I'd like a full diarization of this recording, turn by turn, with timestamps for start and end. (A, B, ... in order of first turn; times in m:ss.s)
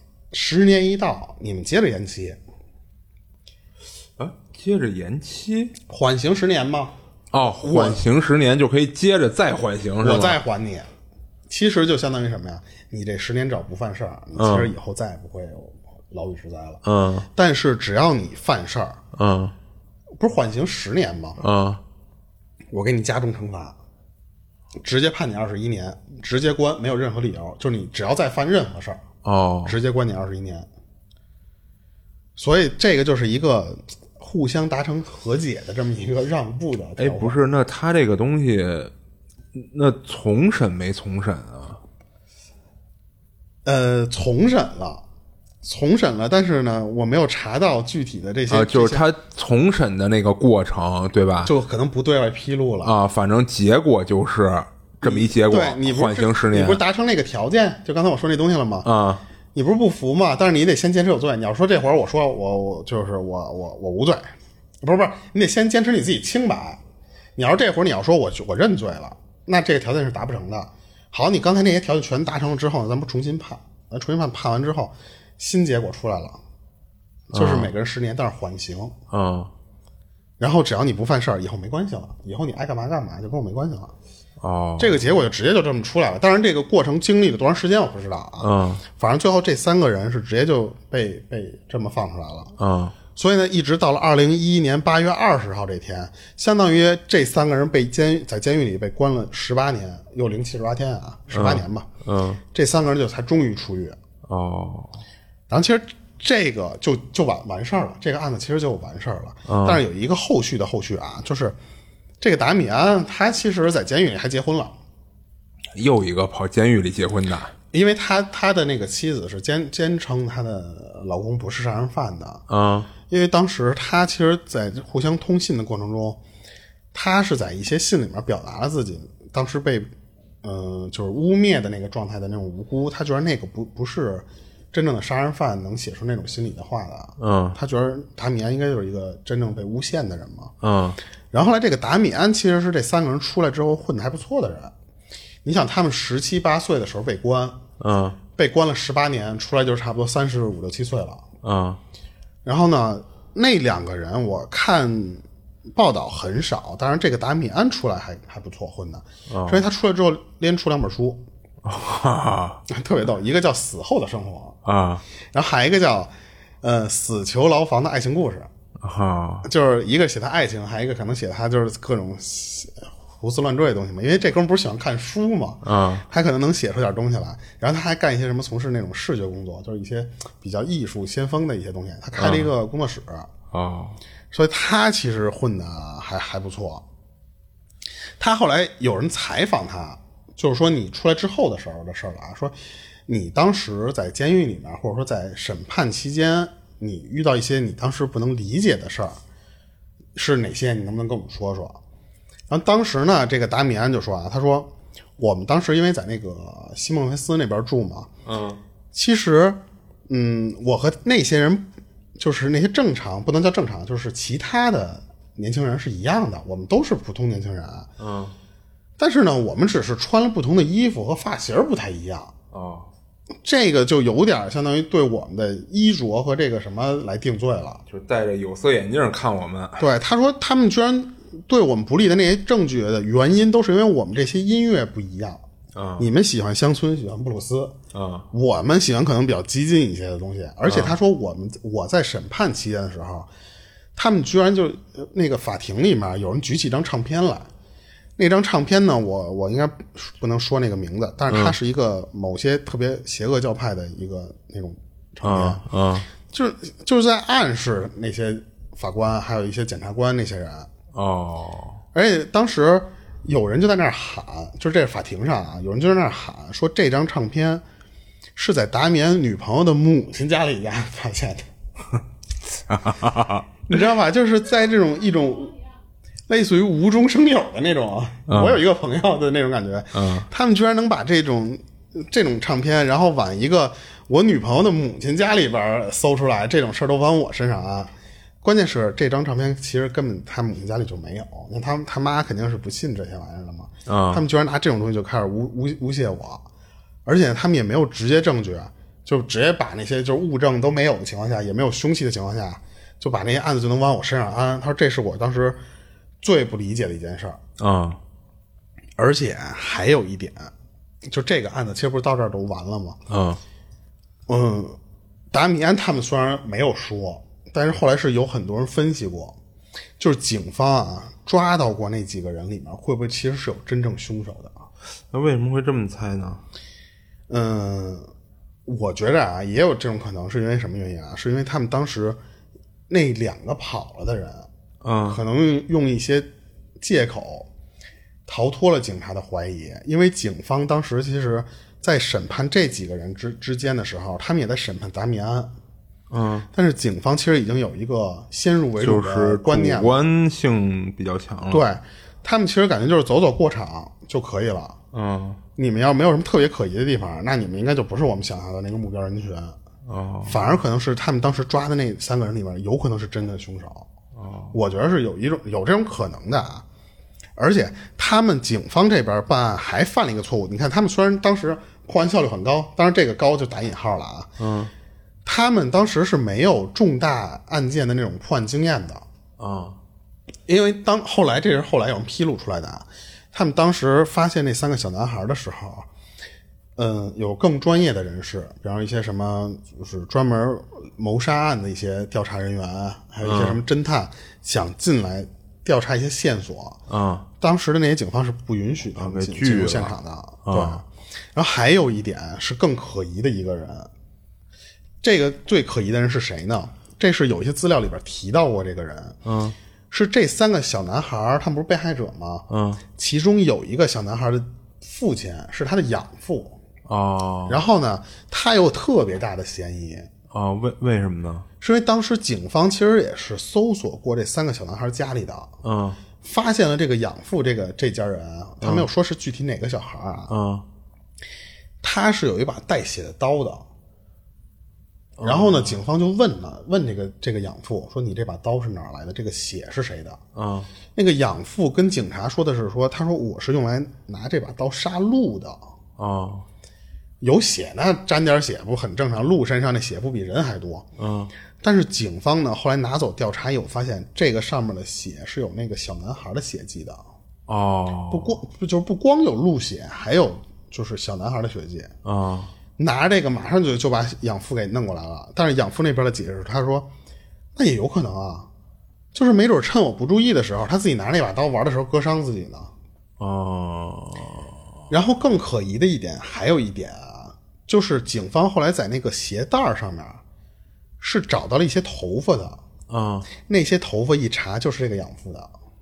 0:00.3-0:02.4 A
0:04.2-0:05.7 B
0:05.9-0:06.9 A
0:07.3-0:10.4 B
0:07.6-0:08.0 A
0:10.0-0:10.9 A
0:11.5-0:19.0 A
0:14.3-0:14.7 B
0:16.8-0:17.3 B
0:19.1-0:19.5 B
0:20.2-0:21.4 A
0:21.4-0:21.8 B
0:22.7-0:23.8 A
0:24.8-0:29.0 A
0:29.2-0:29.8 B
0:29.6-0:30.7 A
0:32.4-0:37.4 A
0:37.0-0:38.9 B
0:39.5-0:41.8 B
0:43.6-0:45.0 A
0:45.6-0:49.0 A
0:48.5-0:51.5 B
0:51.4-0:52.9 A
0:52.8-0:56.8 B
0:55.0-0:58.9 A
0:58.8-0:59.2 B
0:59.5-1:06.8 A
1:07.4-1:16.4 A
1:17.3-1:17.7 B
1:17.3-1:19.0 A
1:19.1-1:19.5 B
1:20.4-1:23.9 A
1:24.4-1:25.0 B
1:24.8-1:32.5 A
1:28.4-1:28.8 B
1:32.6-1:32.9 B
1:33.1-1:41.9 A
1:41.3-1:42.4 B
1:42.5-1:44.0 A
1:44.2-1:45.0 B
1:45.5-1:51.6 A
1:49.5-1:49.8 B
1:52.2-1:54.8 A
1:55.7-1:57.5 B
1:57.7-2:02.4 A
2:02.5-2:02.9 B
2:03.1-2:06.2 A
2:06.9-2:09.9 A
2:10.4-2:20.5 A
2:17.2-2:17.6 B
2:20.6-2:21.0 B
2:21.3-2:24.7 A
2:25.4-2:27.6 A
2:27.8-2:28.2 B
2:28.4-2:31.2 A
2:31.4-2:31.8 B
2:32.4-2:41.2 A
2:39.3-2:39.6 B
2:41.6-2:42.6 B
2:42.7-2:44.6 A
2:44.6-2:45.0 B
2:45.3-2:48.5 A
2:48.8-2:49.5 B
2:49.4-3:03.3 A
2:55.6-2:56.0 B
3:02.2-3:02.5 B
3:03.5-3:04.0 B
3:04.3-3:06.8 A
3:08.2-3:12.6 A
3:13.1-3:19.2 A
3:20.2-3:21.8 A
3:22.5-3:28.1 A
3:28.2-3:28.6 B
3:28.9-3:31.6 A
3:32.2-3:37.9 A
3:38.0-3:38.4 B
3:39.0-3:42.3 A
3:42.5-3:42.9 B
3:43.4-3:47.8 A
3:47.9-3:49.8 B
3:49.8-3:55.4 A
3:55.7-3:56.1 B
3:56.0-3:57.8 A
3:57.9-3:58.3 B
3:58.3-4:03.3 A
4:00.7-4:01.0 B
4:04.0-4:07.5 A
4:08.2-4:15.6 A
4:11.3-4:11.5 B
4:15.2-4:16.1 B
4:16.2-4:20.7 A
4:20.9-4:21.8 B
4:21.9-4:27.6 A
4:28.4-4:31.5 A
4:32.7-4:33.5 B
4:33.6-4:35.6 A
4:36.3-4:56.4 A
4:38.3-4:38.6 B
4:39.9-4:40.3 B
4:53.8-4:54.2 B
4:57.0-5:05.6 A
5:06.2-5:07.4 A
5:07.6-5:08.0 B
5:09.0-5:10.5 A
5:11.0-5:13.0 A
5:13.1-5:13.4 B
5:14.3-5:14.8 A
5:15.3-5:19.4 A
5:20.0-5:24.6 A
5:25.1-5:26.4 B
5:27.3-5:28.1 A
5:28.6-5:32.2 A
5:32.9-5:34.5 A
5:34.8-5:35.2 B
5:35.0-5:36.3 A
5:36.8-5:37.5 A
5:38.3-5:45.5 A
5:46.1-5:46.5 B
5:46.5-5:50.0 A
5:48.8-5:51.6 B
5:51.5-5:54.8 A
5:54.9-5:55.4 B
5:55.6-5:59.6 A
5:59.8-6:00.6 B
6:00.2-6:03.9 A
6:04.2-6:04.5 B
6:04.5-6:06.6 A
6:07.4-6:14.3 A
6:14.4-6:14.7 B
6:15.2-6:19.0 A
6:19.4-6:19.8 B
6:20.5-6:25.9 A
6:26.8-6:36.8 A
6:33.2-6:33.6 B
6:36.9-6:37.3 B
6:37.4-6:43.9 A
6:39.0-6:40.8 B
6:45.0-6:49.2 A
6:49.2-6:49.6 B
6:49.9-6:56.6 A
6:52.5-6:52.8 B
6:56.8-6:57.6 B
6:57.5-7:00.1 A
7:00.3-7:01.4 B
7:01.6-7:05.5 A
7:05.6-7:06.0 B
7:06.2-7:10.3 A
7:10.3-7:10.6 B
7:11.8-7:13.6 A
7:15.2-7:15.8 B
7:15.2-7:20.2 A
7:20.3-7:20.7 B
7:20.9-7:25.6 A
7:26.0-7:26.4 B
7:27.2-7:30.9 A
7:31.0-7:31.3 B
7:31.6-7:37.0 A
7:37.5-7:38.4 B
7:38.1-7:41.9 A
7:42.0-7:42.5 B
7:42.8-7:46.9 A
7:47.6-7:48.5 A
7:49.1-7:52.7 A
7:53.2-7:54.6 B
7:54.9-8:00.2 A
8:01.0-8:02.6 A
8:02.9-8:03.3 B
8:03.5-8:05.5 A